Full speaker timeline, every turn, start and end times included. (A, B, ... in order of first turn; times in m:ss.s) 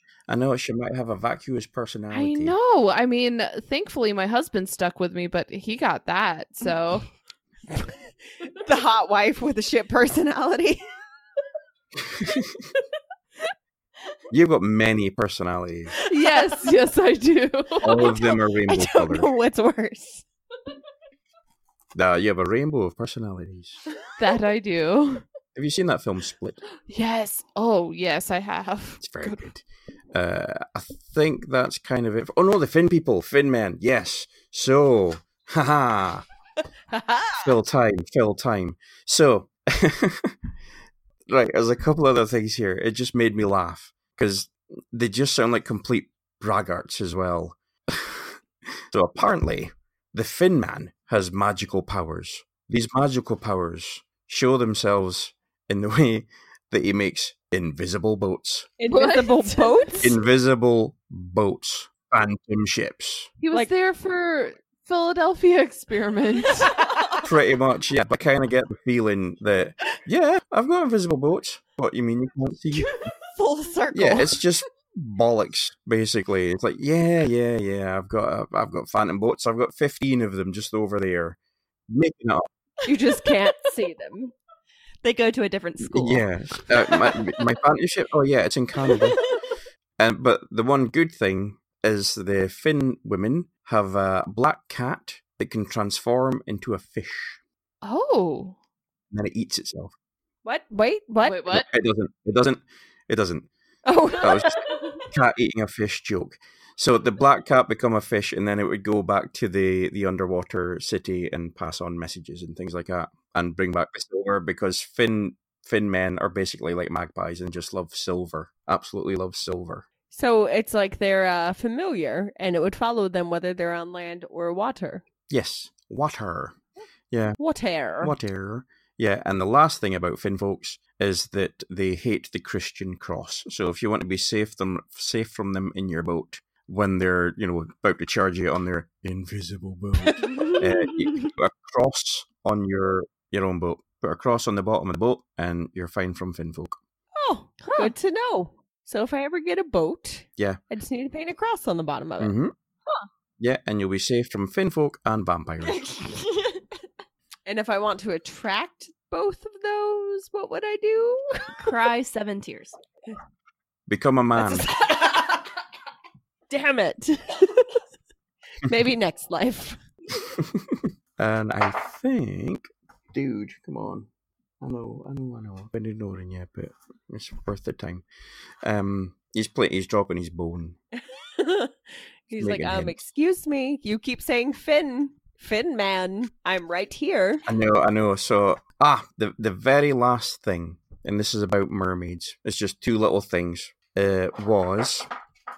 0:00.3-0:02.6 A
0:02.1-0:07.1 B
0:07.7-0:10.8 C
0:12.2-0:12.4 A
0:14.3-0:15.9 A
0:16.0-0:18.2 B
0:17.8-0:19.3 A
0:18.6-0:20.2 C
0:21.9-0:23.8 A
0:24.2-0:25.2 B
0:25.5-0:26.6 A
0:26.9-0:29.4 B
0:29.0-0:36.2 A
0:36.9-0:37.5 C
0:37.3-0:40.4 A
0:41.3-0:58.7 A
0:58.8-1:00.2 C
0:58.9-0:59.9 B
1:00.0-1:03.3 A
1:03.4-1:06.8 B
1:07.2-1:13.1 A
1:13.3-1:14.4 C
1:13.9-1:21.4 A
1:21.9-1:22.4 A
1:22.8-1:24.3 C
1:25.0-1:26.2 D
1:25.8-1:29.2 A
1:30.0-1:37.4 A
1:37.8-1:38.6 B
1:39.1-1:39.9 A
1:40.4-1:41.4 C
1:41.2-1:41.6 B
1:41.5-1:43.5 A
1:43.8-1:45.0 C
1:44.1-1:59.8 A
2:00.1-2:05.0 C
2:05.3-2:06.6 A
2:07.1-2:07.4 A
2:07.4-2:08.1 C
2:08.0-2:26.8 A
2:27.2-2:32.3 C
2:27.6-2:27.9 D
2:32.2-2:32.5 A
2:33.4-2:36.0 A
2:37.4-2:41.8 C
2:41.6-2:42.8 D
2:43.9-2:44.7 A
2:44.4-2:45.4 C
2:46.5-2:47.8 C
2:48.6-2:49.8 C
2:50.4-2:54.1 A
2:54.6-2:58.0 A
2:58.6-3:00.8 A
3:01.3-3:01.7 C
3:02.3-3:07.4 C
3:02.4-3:03.0 A
3:07.4-3:15.1 A